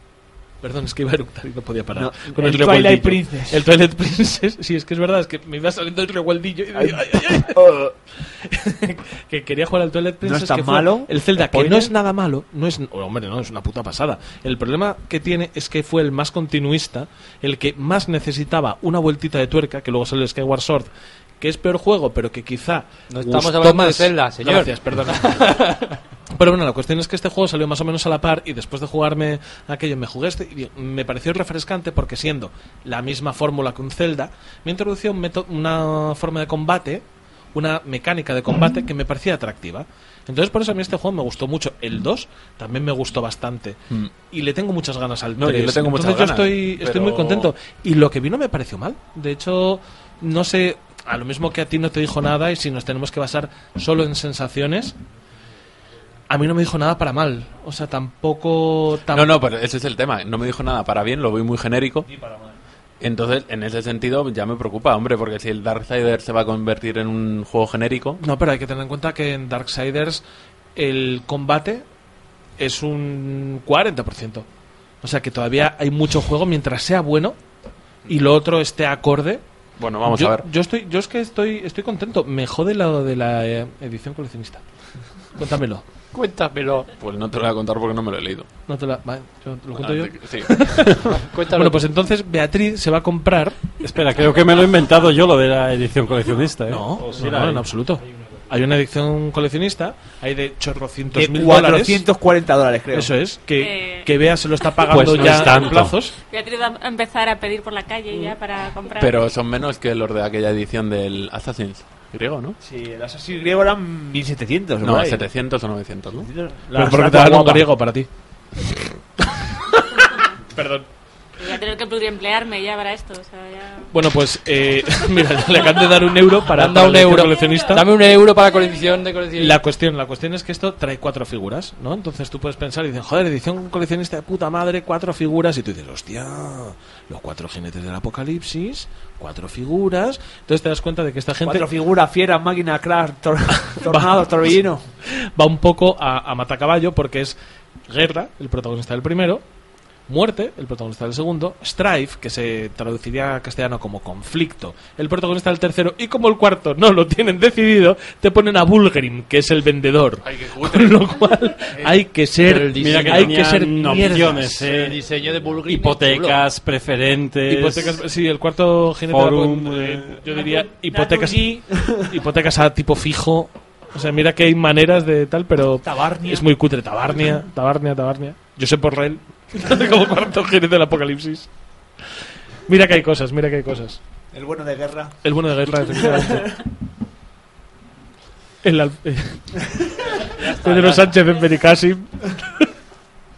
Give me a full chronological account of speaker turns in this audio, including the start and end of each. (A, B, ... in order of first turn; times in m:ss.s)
0:00.6-0:20.9 A
0:01.9-0:03.6 B
0:06.8-0:07.9 B
0:10.2-0:11.9 B
0:21.4-0:25.6 A
0:23.1-0:26.0 C
0:26.3-0:43.8 A
0:44.3-0:55.0 A
0:45.4-0:47.5 D
0:56.3-0:59.4 A
0:59.1-1:02.1 D
1:02.1-1:02.6 B
1:03.0-1:08.2 D
1:08.2-1:10.2 A
1:10.8-1:11.8 A
1:12.6-1:14.5 A
1:15.0-1:17.4 A
1:18.1-1:19.4 A
1:19.8-1:20.5 D
1:20.0-1:24.6 A
1:25.4-1:25.8 A
1:26.1-1:26.9 C
1:27.0-1:28.5 D
1:28.7-1:33.7 A
1:29.8-1:31.0 D
1:31.1-1:31.8 C
1:33.8-1:37.7 E
1:36.7-1:42.0 A
1:41.1-1:43.1 B
1:42.9-1:46.2 A
1:43.6-1:44.1 F
1:44.9-1:46.0 E
1:46.2-1:49.2 F
1:49.0-1:52.6 D
1:52.6-1:55.3 B
1:54.8-1:56.3 D
1:56.1-1:57.7 B
1:56.7-1:58.1 A
1:59.3-2:00.9 A
2:01.4-2:03.9 F
2:03.9-2:07.9 A
2:06.5-2:09.6 C
2:09.4-2:21.7 A
2:21.4-2:24.8 B
2:23.6-2:24.3 A
2:25.1-2:27.4 A
2:27.9-2:29.4 A
2:30.1-2:44.7 A
2:40.2-2:41.0 D
2:42.4-2:46.4 C
2:42.7-2:45.0 E
2:45.6-2:48.0 E
2:47.5-3:01.5 A
2:49.1-2:50.2 E
2:50.3-2:52.1 B
2:55.8-2:56.5 B
3:02.7-3:04.0 A
3:04.3-3:05.2 B
3:05.2-3:06.6 A
3:05.8-3:06.6 B
3:08.6-3:12.7 A
3:10.3-3:11.1 C